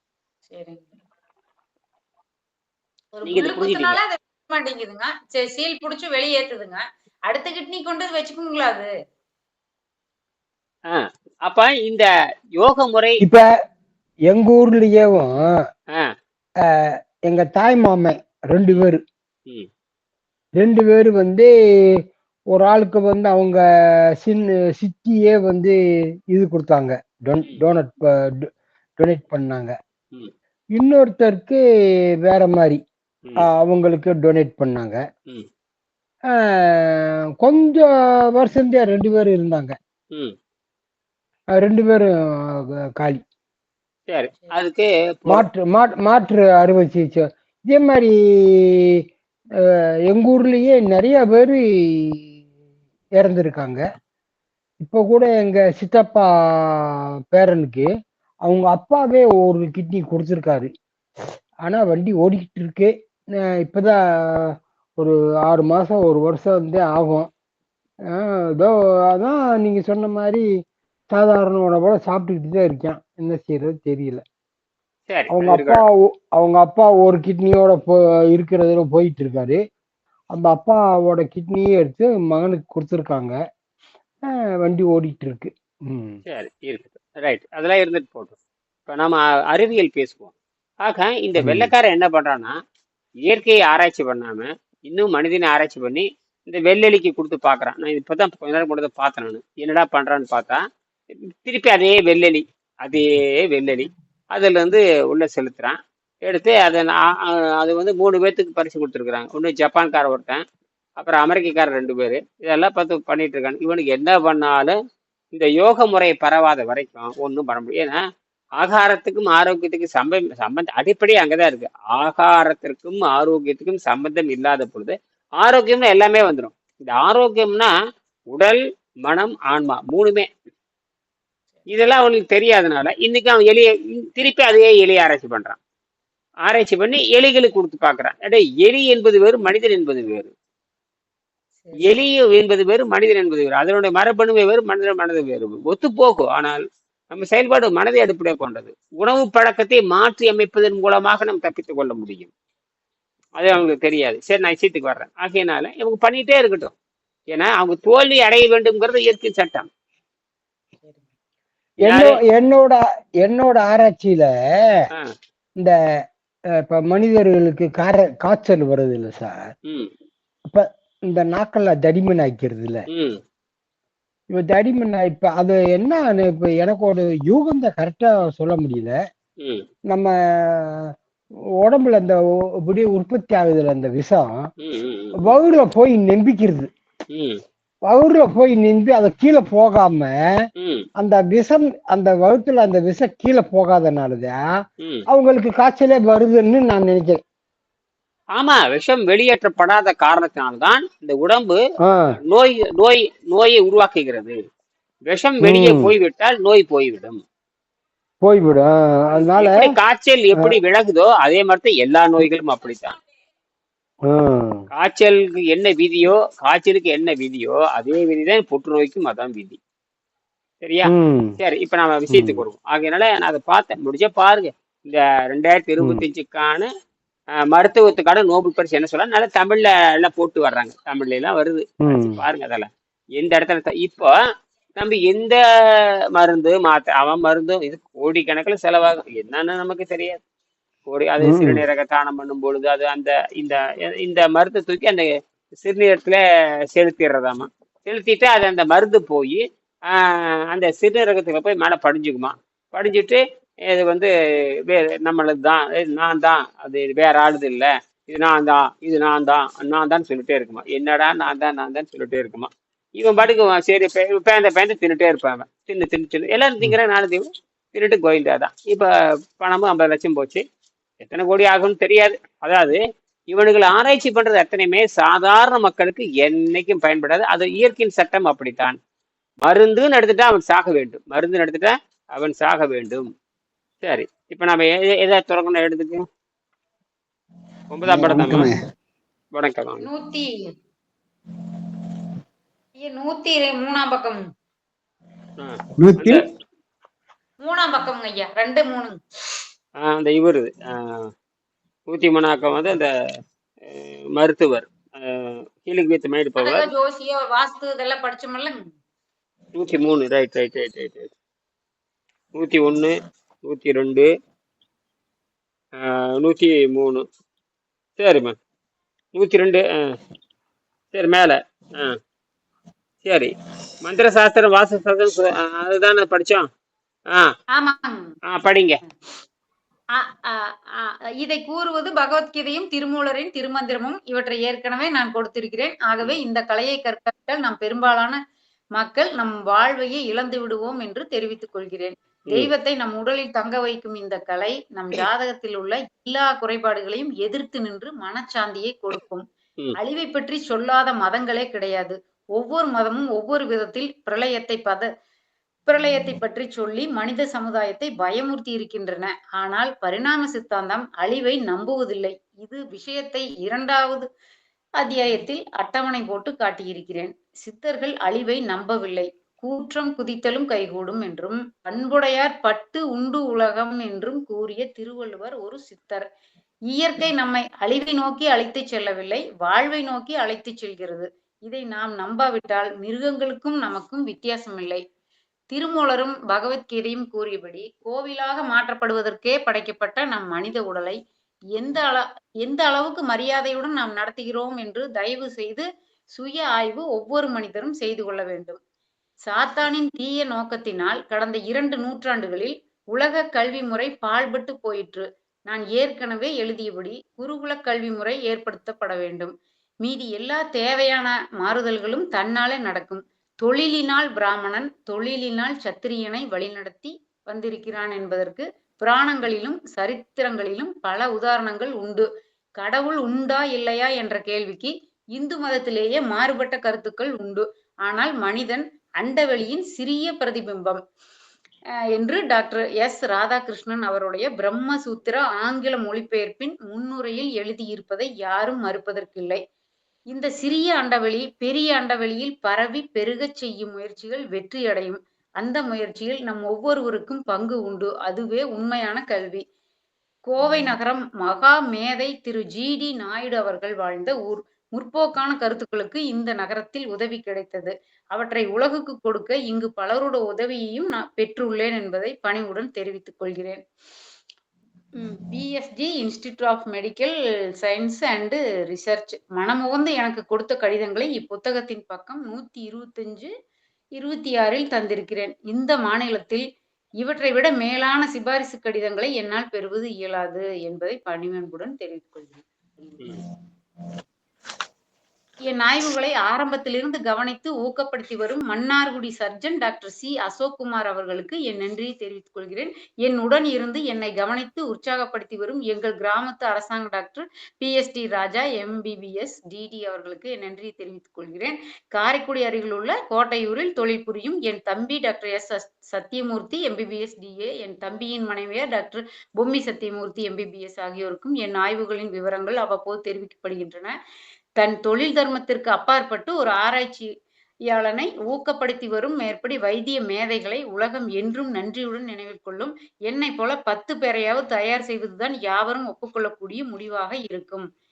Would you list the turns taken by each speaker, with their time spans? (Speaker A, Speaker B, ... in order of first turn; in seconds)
Speaker A: 0.5-0.9, 3.1-8.9, 141.6-141.9, 289.8-290.5, 292.8-294.3, 297.4-299.0, 306.4-308.7, 327.5-328.1, 329.9-338.2, 338.8-349.2, 349.8-354.9, 355.7-364.1, 364.8-376.0, 376.7-384.8, 385.5-391.0, 391.5-398.6, 399.2-422.1, 422.6-430.8, 431.9-439.4, 440.1-449.4, 450.3-463.6, 465.0-473.3, 473.9-476.4, 477.0-483.0, 485.4-513.9, 514.6-517.1, 517.7-527.7
Speaker B: 3.2-4.0, 10.9-13.2, 44.1-45.5, 75.1-75.8, 86.3-88.3, 88.9-92.5, 93.2-100.6, 101.2-110.4, 111.0-114.8, 115.3-118.0, 118.6-127.7, 128.3-130.3, 131.7-135.6, 136.4-140.3, 141.8-146.6, 147.1-152.3, 153.4-156.7, 157.3-159.7, 161.8-162.2, 172.9-173.2, 179.4-179.6, 184.6-185.3, 187.1-187.4, 190.6-190.8, 194.8-195.1, 198.3-201.6, 202.2-204.4, 205.1-207.2, 209.1-212.9, 214.7-219.6, 220.6-226.7, 227.3-234.1, 234.8-240.2, 240.8-245.1, 245.6-246.2, 246.7-254.1, 254.6-270.4, 271.0-278.8, 279.4-283.1, 283.8-286.0, 287.7-288.5, 289.3-289.9, 295.4-296.2, 299.8-301.1, 301.9-302.9, 303.6-306.7, 309.5-311.1, 312.3-314.1, 315.8-317.0, 318.0-318.3, 319.1-319.9, 320.9-322.0, 323.0-323.3, 323.8-326.5, 328.3-328.8
Speaker C: 13.2-13.5, 14.3-15.3, 16.6-19.0, 20.6-21.9, 22.5-23.6, 24.2-25.7, 26.3-29.7, 30.7-31.6, 32.2-32.8, 33.4-35.0, 36.2-39.8, 41.5-43.2, 45.3-49.0, 49.6-52.4, 53.2-53.8, 54.8-57.9, 58.4-60.7, 61.6-67.3, 68.1-70.5, 71.1-74.2, 75.3-79.6, 80.3-83.3, 84.2-86.2, 91.4-91.7, 161.8-164.3, 166.5-169.5, 170.5-172.8, 174.3-179.0, 179.9-180.9, 181.6-184.4, 185.2-186.7, 187.9-190.2, 191.0-194.4, 195.1-197.2, 201.8-202.1, 205.4-205.9, 208.2-209.7, 214.1-214.6, 220.9-221.4, 222.1-222.4, 231.8-232.2, 241.2-241.6, 287.9-288.5, 295.8-296.2